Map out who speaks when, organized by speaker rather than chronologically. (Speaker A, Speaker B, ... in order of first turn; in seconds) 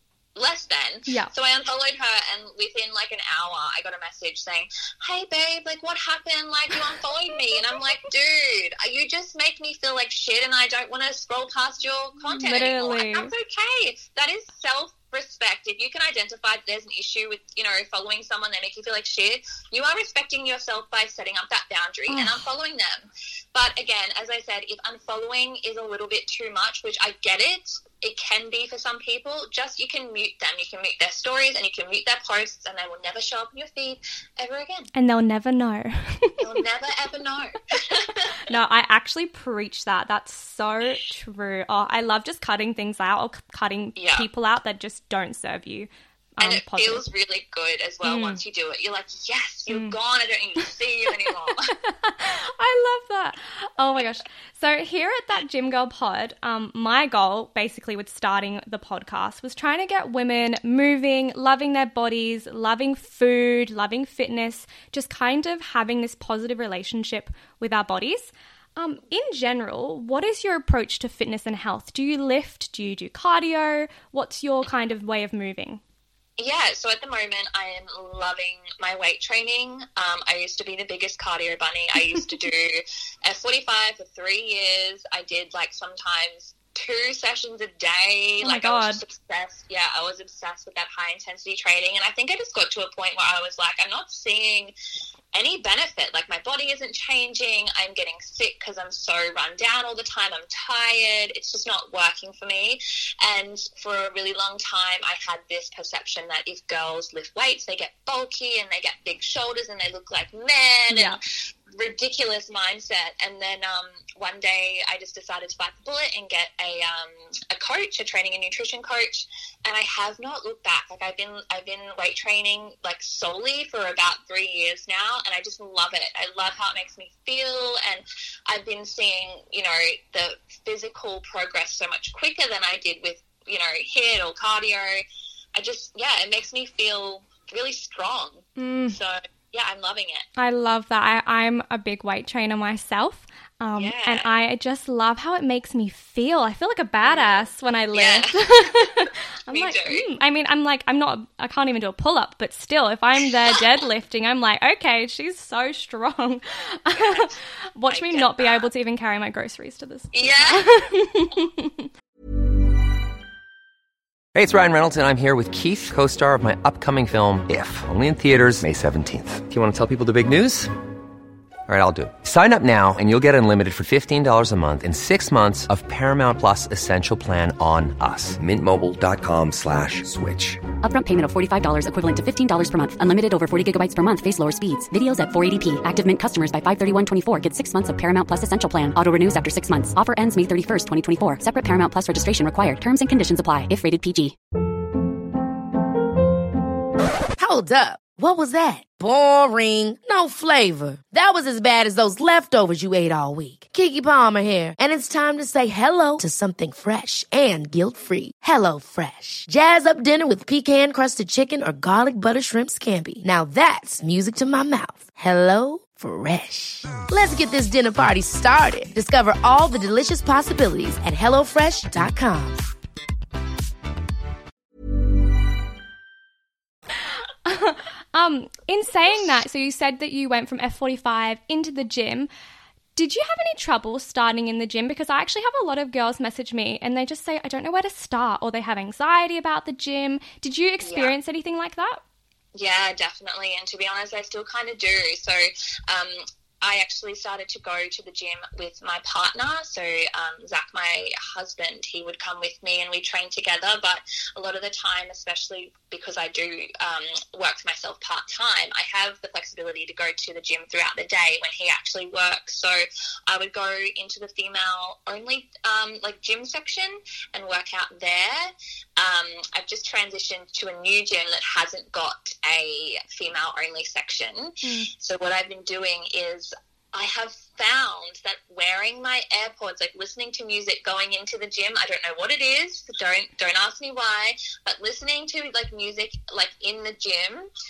Speaker A: 0.3-34.9, 36.4-38.5, 44.0-44.3, 46.4-51.7, 76.4-94.7, 95.3-111.2, 111.7-135.0, 135.6-140.3, 143.8-144.3, 147.0-150.1, 156.9-157.4, 157.9-158.7, 160.1-160.7, 240.8-241.1, 242.6-287.5
Speaker B: 12.3-13.3, 22.1-22.5, 34.9-36.5, 38.5-47.0, 48.0-48.4, 49.7-50.0, 51.8-75.8, 88.4-89.0, 110.9-111.2, 138.6-139.0, 140.4-161.9, 227.4-232.3, 233.0-242.0, 274.6-274.9
Speaker C: 164.3-170.7, 171.7-180.6
Speaker D: 180.8-194.4
Speaker E: 197.4-222.6